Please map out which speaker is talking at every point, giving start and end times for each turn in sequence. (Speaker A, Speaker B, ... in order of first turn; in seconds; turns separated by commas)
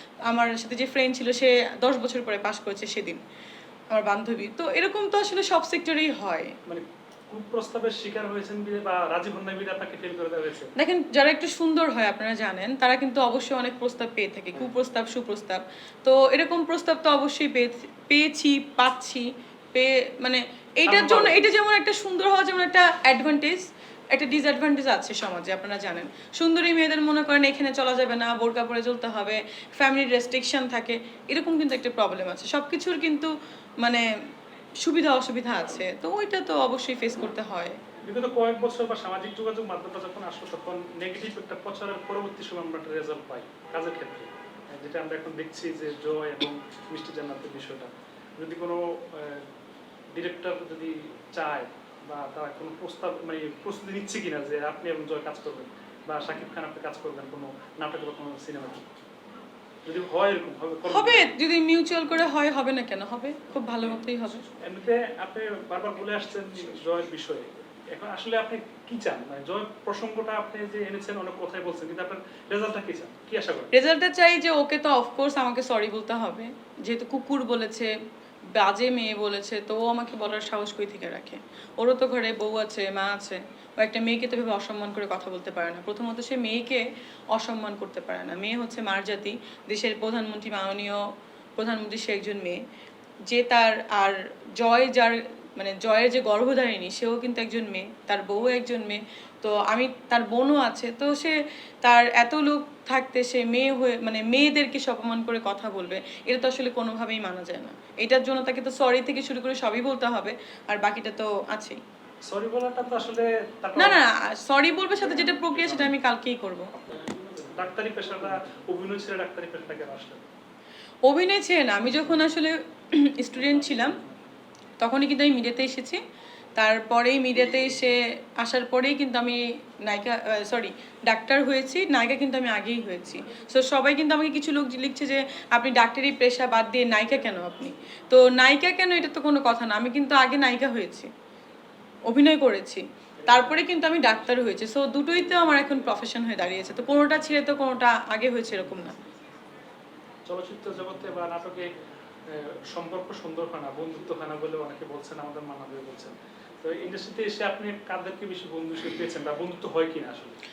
Speaker A: 0.3-3.2, Speaker A: 3.9-6.6, Speaker B: 6.7-10.7, Speaker A: 10.8-34.1, Speaker B: 20.9-21.4, Speaker A: 34.8-37.8, Speaker B: 38.0-49.5, Speaker B: 50.1-58.9, Speaker B: 59.9-61.3, Speaker A: 60.9-64.5, Speaker B: 64.5-73.7, Speaker A: 73.7-77.9, Speaker A: 78.5-91.0, Speaker A: 91.6-92.6, Speaker A: 93.3-111.8, Speaker B: 112.2-114.0, Speaker A: 113.8-116.7, Speaker B: 116.9-120.3, Speaker A: 121.0-124.0, Speaker A: 124.8-126.0, Speaker A: 126.5-141.1, Speaker A: 142.1-149.0, Speaker B: 150.3-151.7, Speaker B: 152.3-160.4